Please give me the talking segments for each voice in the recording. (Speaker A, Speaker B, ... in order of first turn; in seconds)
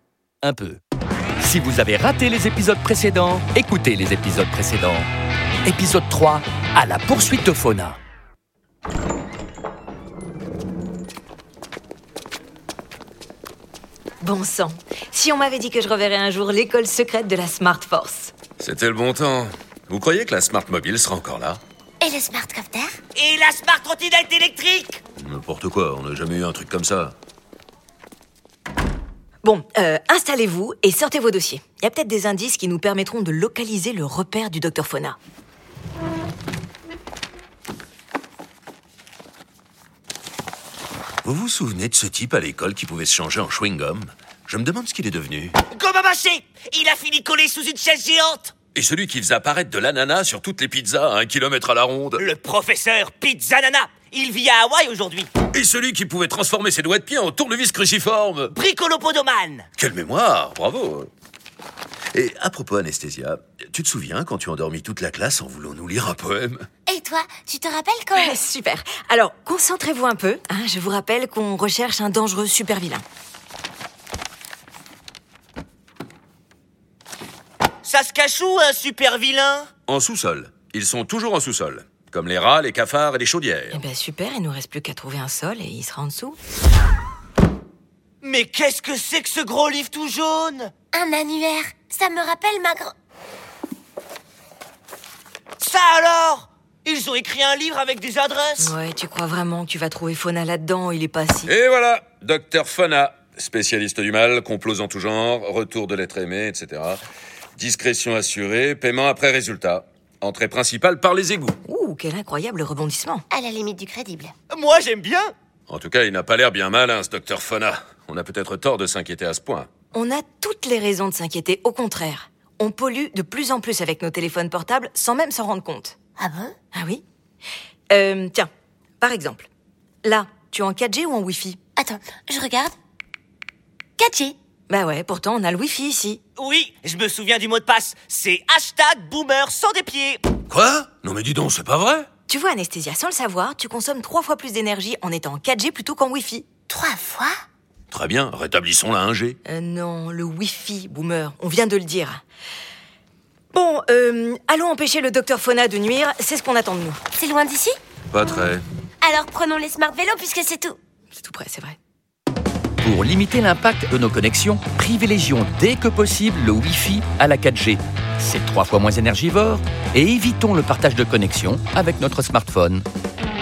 Speaker A: 0.4-0.8, 1.4-5.1, 5.6-8.0, 162.8-172.8
Speaker B: 14.2-18.3, 29.4-35.2, 68.2-73.0, 83.7-86.4, 98.6-101.5, 111.7-113.2, 119.9-126.0, 126.7-127.0, 127.9-129.5, 130.0-131.6, 134.7-136.2, 142.3-146.4, 149.4-152.2, 153.5-157.0, 161.1-161.8
Speaker C: 18.6-21.6, 25.2-27.1, 41.2-45.6, 48.7-52.2, 55.5-58.5, 59.8-61.1, 62.1-66.7, 79.9-83.8, 101.5-107.0, 107.5-111.6, 115.7-119.7, 140.5-142.1, 147.9-149.4, 158.1-158.6
Speaker D: 22.0-23.0, 66.9-68.4, 90.9-92.9, 113.3-114.3, 126.2-126.5, 131.8-132.7, 134.0-134.3, 146.7-147.4, 157.2-157.8, 159.0-160.8
Speaker E: 23.1-25.0, 45.7-48.5, 52.2-55.3, 58.5-59.6, 77.8-79.7, 88.2-90.7, 95.6-98.8, 114.5-115.3, 136.4-140.2